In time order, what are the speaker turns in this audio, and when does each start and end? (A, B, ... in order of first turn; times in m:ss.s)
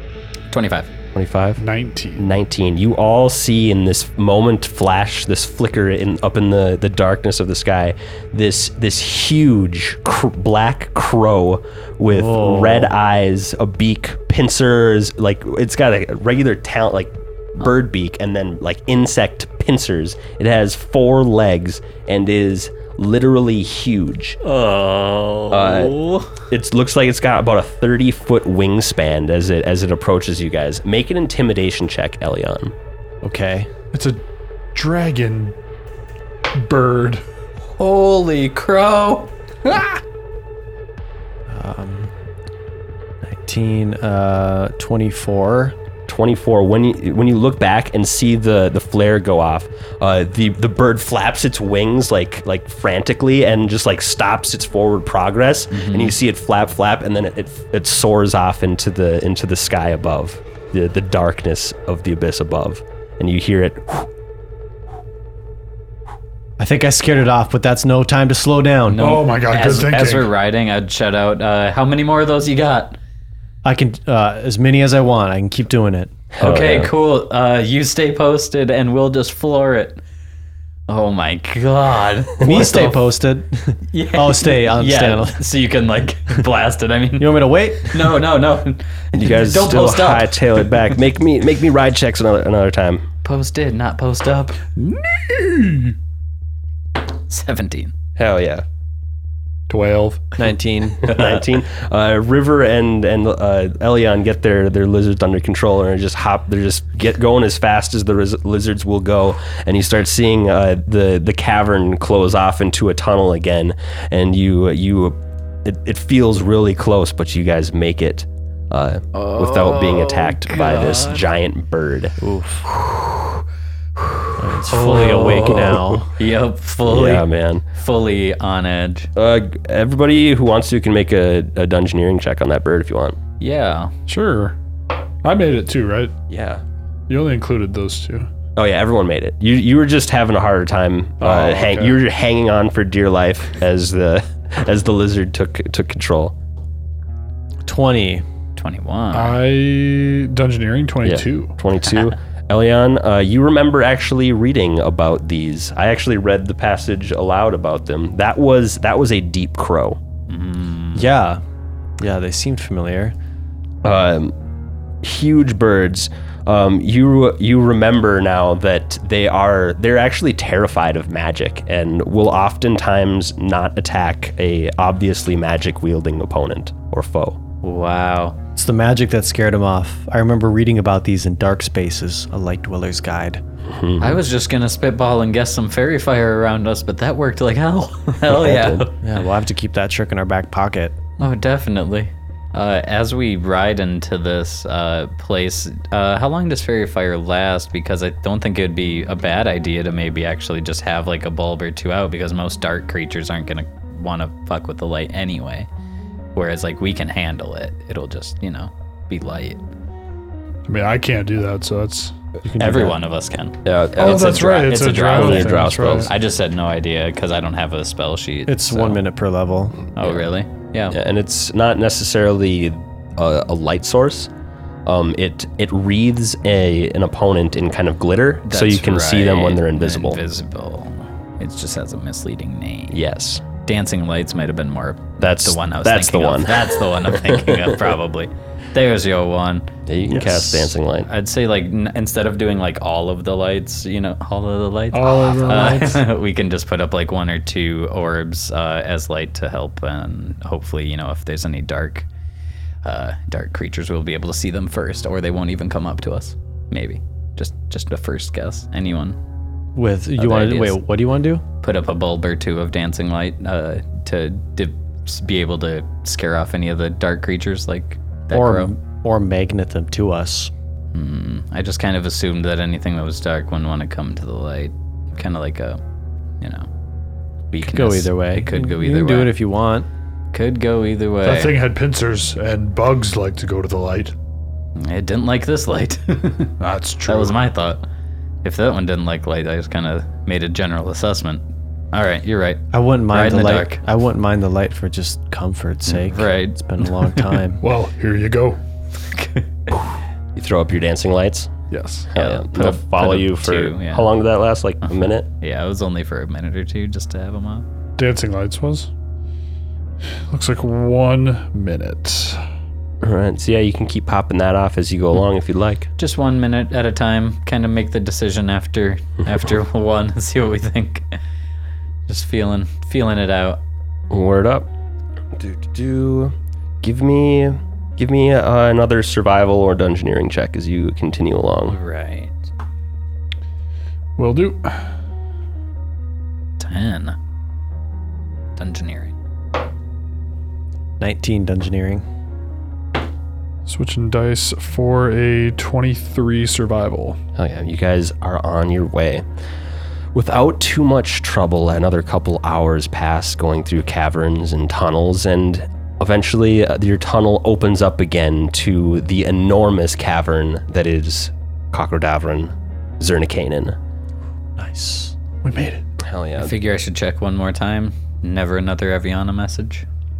0:00.5-0:00.9 A
0:01.1-0:01.6 B
0:01.6-0:02.3 C
0:02.2-0:24.4 B
0:12.1-0:12.9 D
0:24.4-0:26.4 A
0:25.5-0:32.7 B
0:33.2-0:33.7 D
0:33.9-0:34.2 C
0:34.7-0:35.6 C
0:36.5-0:37.2 C
0:37.7-0:39.3 A
0:39.7-0:39.9 C
0:41.5-0:42.1 D
0:43.2-0:45.7 D
0:46.1-1:04.1 B
0:55.7-0:56.2 A
1:06.6-1:09.2 D
1:08.9-1:13.0 A
1:09.0-1:10.3 C
1:13.6-1:16.1 D
1:16.3-1:16.9 B
1:16.4-1:20.0 A
1:20.9-1:23.0 A
1:22.4-1:25.4 D
1:23.9-1:31.0 A
1:27.2-1:28.2 D
1:29.1-1:33.0 B
1:33.2-1:34.6 A
1:34.8-1:36.0 C
1:37.3-1:37.9 A
1:38.2-1:38.6 B
1:39.7-1:40.4 C
1:40.4-1:41.4 D
1:41.0-2:02.2 B
1:41.1-1:41.4 A
1:59.1-2:01.2 A
2:02.2-2:02.7 D
2:02.7-2:03.1 B
2:04.4-2:06.1 D
2:04.7-2:09.1 A
2:05.3-2:06.0 B
2:06.9-2:07.6 B
2:09.2-2:13.2 B
2:13.4-2:13.9 A
2:14.1-2:14.6 C
2:15.2-2:16.1 C
2:16.3-2:16.6 B
2:17.1-2:18.3 C
2:18.6-2:26.4 B
2:21.2-2:22.0 C
2:27.6-2:28.2 D
2:28.6-2:29.4 A
2:29.1-2:31.5 C
2:31.0-2:40.0 B
2:40.3-2:41.1 A
2:41.0-2:41.4 D
2:42.0-2:43.2 D
2:43.8-2:44.3 B
2:45.0-2:57.4 B
2:57.6-2:58.4 A
2:58.6-3:03.4 D
3:03.7-3:04.2 B
3:04.0-3:09.0 A
3:08.3-3:08.9 B
3:09.0-3:11.0 D
3:11.2-3:25.7 A
3:26.4-3:29.6 A
3:30.6-3:32.3 C
3:32.4-3:33.0 D
3:32.6-3:39.0 A
3:33.6-3:36.1 B
3:34.0-3:36.1 C
3:38.5-3:39.8 D
3:40.0-3:41.0 A
3:40.9-3:44.3 B
3:44.9-3:50.2 B
3:48.5-3:53.0 A
3:52.9-3:53.4 B
3:53.6-3:59.7 A
3:55.2-3:57.7 B
3:59.9-4:01.1 B
4:00.1-4:00.6 D
4:01.0-4:12.1 A
4:04.9-4:06.0 C
4:12.8-4:19.2 A
4:19.7-4:21.4 D
4:20.2-4:20.8 A
4:21.6-4:28.7 A
4:28.3-4:30.5 D
4:30.9-4:35.8 A
4:36.4-4:36.7 A
4:37.5-4:39.3 A
4:37.6-4:39.9 D
4:40.3-4:41.6 A
4:41.2-4:44.2 C
4:44.8-4:47.8 A
4:46.6-4:47.4 C
4:48.4-4:53.8 A
4:52.7-4:57.6 D
4:55.9-4:57.4 A
4:57.6-4:58.6 C
4:59.1-4:59.7 A
5:00.4-5:01.5 B
5:01.7-5:02.1 C
5:02.1-5:05.3 B
5:02.2-5:04.1 A
5:04.9-5:07.6 A
5:08.0-5:08.9 C
5:10.3-5:12.4 C
5:13.0-5:15.9 B
5:16.0-5:21.2 A
5:22.1-5:23.6 A
5:24.1-5:24.7 B
5:25.4-5:31.8 B
5:31.7-5:32.5 A
5:34.2-5:34.9 C
5:36.6-5:37.2 A
5:38.6-5:39.1 A
5:41.0-5:42.1 D
5:43.6-5:47.2 C
5:47.4-5:49.2 B
5:50.2-6:03.7 B
6:04.6-6:05.1 D
6:05.4-6:05.8 C
6:06.0-6:06.5 B
6:06.4-6:09.8 A